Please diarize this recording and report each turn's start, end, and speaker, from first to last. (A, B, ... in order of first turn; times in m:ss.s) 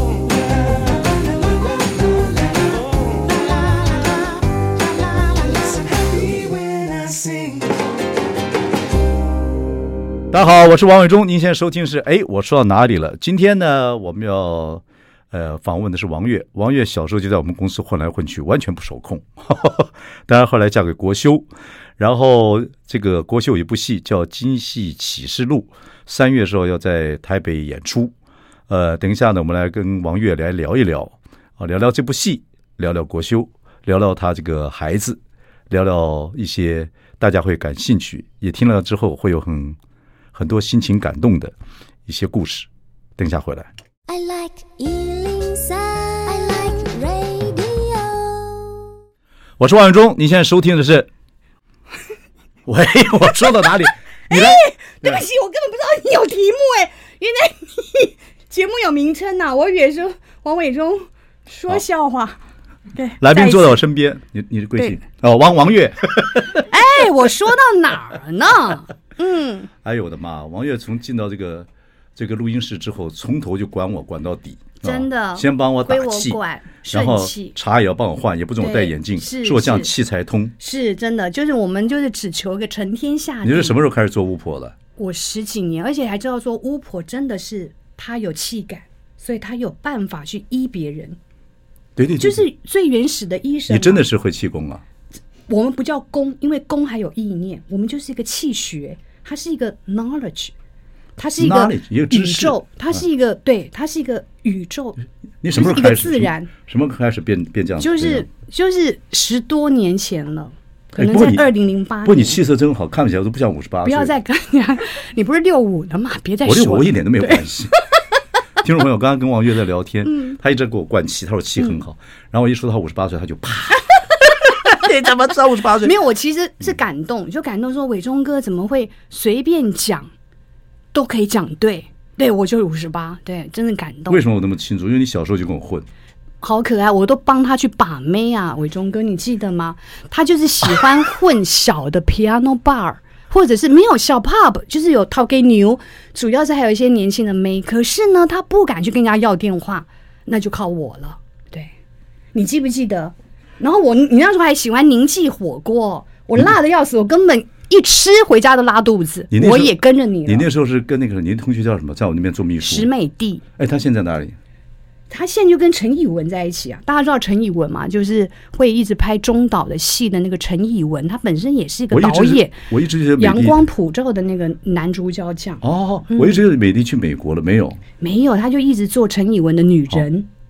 0:10.3-0:21.5 A
0:22.0-0:28.1 A
0:28.7-0:39.8 A
0:40.3-0:41.5 A
0:42.1-0:43.7 A
0:44.1-0:48.8 B
0:49.6-0:51.1 A
0:52.7-0:55.2 A
0:54.3-1:02.4 C
1:03.0-1:03.8 C
1:03.2-1:06.7 A
1:06.6-1:09.7 C
1:09.8-1:16.4 A
1:14.8-1:17.6 C
1:16.9-1:20.5 A
1:18.6-1:19.9 C
1:20.6-1:23.8 C
1:23.4-1:24.8 A
1:25.0-1:31.2 C
1:32.0-1:32.5 A
1:32.2-1:34.0 C
1:33.7-1:34.8 A
1:35.5-1:40.5 C
1:41.2-1:45.0 C
1:41.4-1:43.0 A
1:45.4-1:48.3 A
1:45.5-1:46.5 C
1:47.8-1:52.4 C
1:51.0-1:51.5 A
1:52.0-1:54.1 A
1:53.8-1:57.5 C
1:56.4-1:57.8 A
1:58.6-2:03.9 A
2:00.0-2:00.4 C
2:04.4-2:06.0 A
2:05.8-2:10.1 C
2:10.9-2:14.2 C
2:14.1-2:15.9 A
2:16.4-2:31.7 C
2:32.3-2:40.5 C
2:39.3-2:42.9 A
2:42.6-2:43.4 C
2:43.6-2:44.4 A
2:45.1-2:52.6 C
2:51.9-2:53.6 A
2:53.2-2:56.4 C
2:55.6-2:57.8 A
2:58.0-3:00.3 C